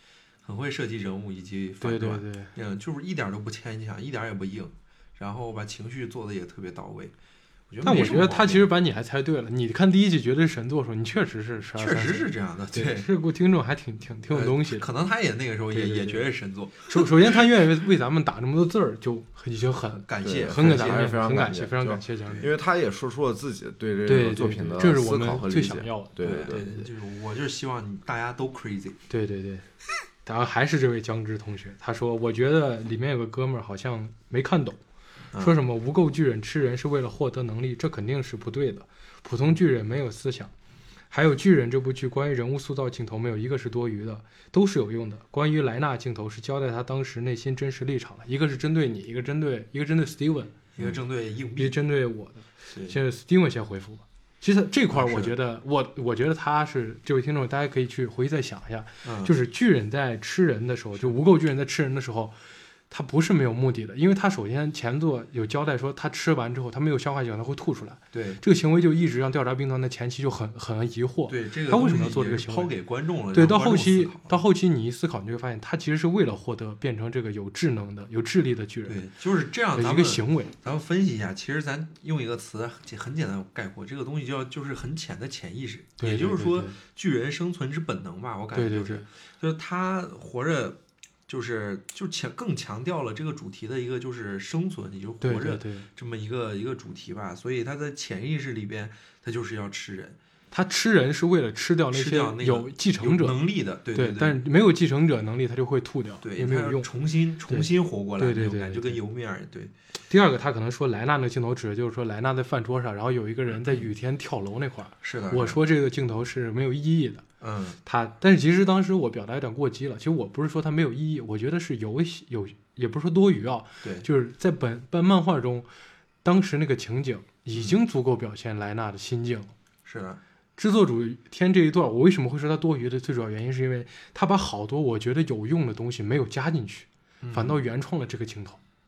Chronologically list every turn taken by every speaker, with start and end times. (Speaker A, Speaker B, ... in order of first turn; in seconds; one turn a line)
Speaker A: 0.4-7.1
Speaker B: 1.8-2.5
Speaker A: 7.7-8.7
Speaker B: 7.8-14.9
Speaker A: 11.7-13.1
Speaker A: 14.3-17.1
Speaker B: 15.7-16.2
Speaker B: 16.8-22.5
Speaker A: 19.9-21.2
Speaker C: 20.2-26.9
Speaker B: 24.1-26.1
Speaker A: 26.2-29.0
Speaker B: 29.1-29.7
Speaker B: 30.2-34.8
Speaker B: 35.4-40.5
Speaker B: 41.1-50.6
Speaker A: 50.7-51.8
Speaker B: 51.6-62.4
Speaker A: 52.7-53.0
Speaker A: 54.9-55.3
Speaker A: 59.0-59.3
Speaker B: 62.9-72.7
Speaker A: 68.1-68.4
Speaker A: 71.3-74.4
Speaker B: 73.3-79.0
Speaker A: 78.9-100.2
Speaker B: 79.7-80.5
Speaker B: 86.0-86.8
Speaker B: 88.5-89.1
Speaker B: 95.2-95.9
Speaker B: 100.5-103.4
Speaker A: 101.9-104.4
Speaker B: 103.9-106.9
Speaker A: 106.2-109.7
Speaker B: 107.5-109.0
Speaker B: 110.1-117.2
Speaker A: 115.0-115.6
Speaker A: 117.4-117.8
Speaker B: 117.8-125.7
Speaker B: 126.2-129.5
Speaker A: 127.5-127.8
Speaker A: 129.8-130.2
Speaker B: 130.6-138.6
Speaker A: 137.2-137.6